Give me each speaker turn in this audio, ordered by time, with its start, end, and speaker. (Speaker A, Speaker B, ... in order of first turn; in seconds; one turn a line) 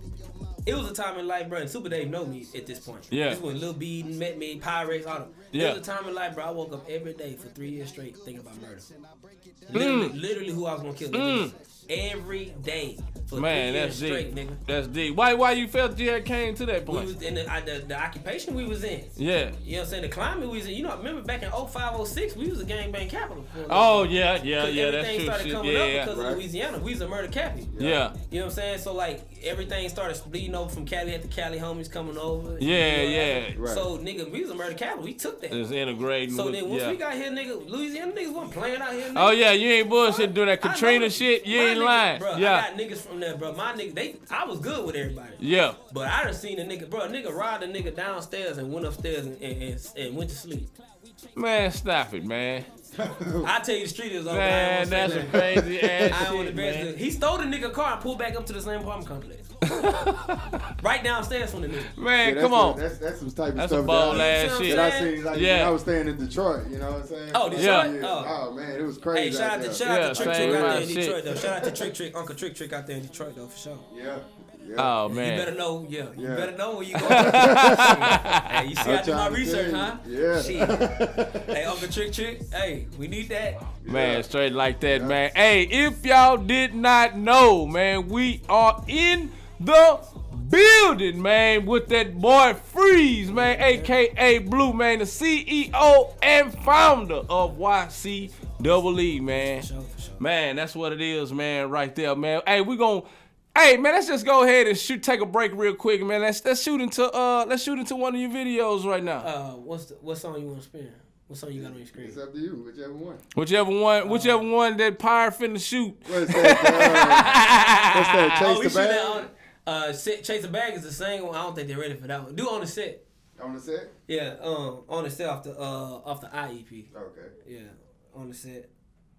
Speaker A: 0.7-8.9
Speaker B: 3.1-3.4
Speaker B: 5.5-5.8
Speaker A: 9.7-14.6
Speaker B: 9.7-10.1
Speaker B: 11.1-11.5
Speaker B: 13.3-17.1
Speaker A: 16.9-27.7
Speaker B: 19.2-19.6
Speaker B: 23.7-26.1
Speaker C: 26.1-26.4
Speaker C: 27.7-28.0
Speaker B: 27.8-28.1
Speaker A: 28.3-35.6
Speaker B: 32.6-33.6
Speaker C: 33.5-33.9
Speaker B: 35.5-37.0
Speaker A: 36.3-39.4
Speaker B: 39.1-42.7
Speaker A: 40.0-50.8
Speaker B: 45.4-45.8
Speaker B: 51.4-52.7
Speaker C: 53.0-53.5
Speaker A: 53.4-55.5
Speaker B: 54.3-56.9
Speaker C: 55.0-56.2
Speaker A: 56.1-59.5
Speaker B: 59.6-60.6
Speaker A: 60.8-61.9
Speaker B: 62.0-62.8
Speaker C: 62.2-71.9
Speaker B: 63.6-65.8
Speaker A: 64.1-65.2
Speaker A: 67.3-68.3
Speaker B: 67.6-67.9
Speaker A: 69.1-73.9
Speaker B: 69.8-71.2
Speaker C: 73.9-75.0
Speaker B: 74.8-75.5
Speaker A: 75.1-83.6
Speaker C: 76.2-78.3
Speaker B: 77.0-78.6
Speaker C: 78.8-81.9
Speaker C: 83.8-84.3
Speaker B: 83.8-99.7
Speaker C: 84.8-85.2
Speaker A: 93.3-94.0
Speaker A: 98.5-100.3
Speaker B: 100.2-109.3
Speaker A: 109.2-112.2
Speaker C: 111.6-113.2
Speaker B: 113.3-118.4
Speaker A: 114.0-114.5
Speaker C: 116.1-119.3
Speaker A: 118.4-123.0
Speaker C: 123.4-123.9
Speaker A: 124.1-126.9
Speaker C: 126.9-127.3
Speaker A: 127.4-128.7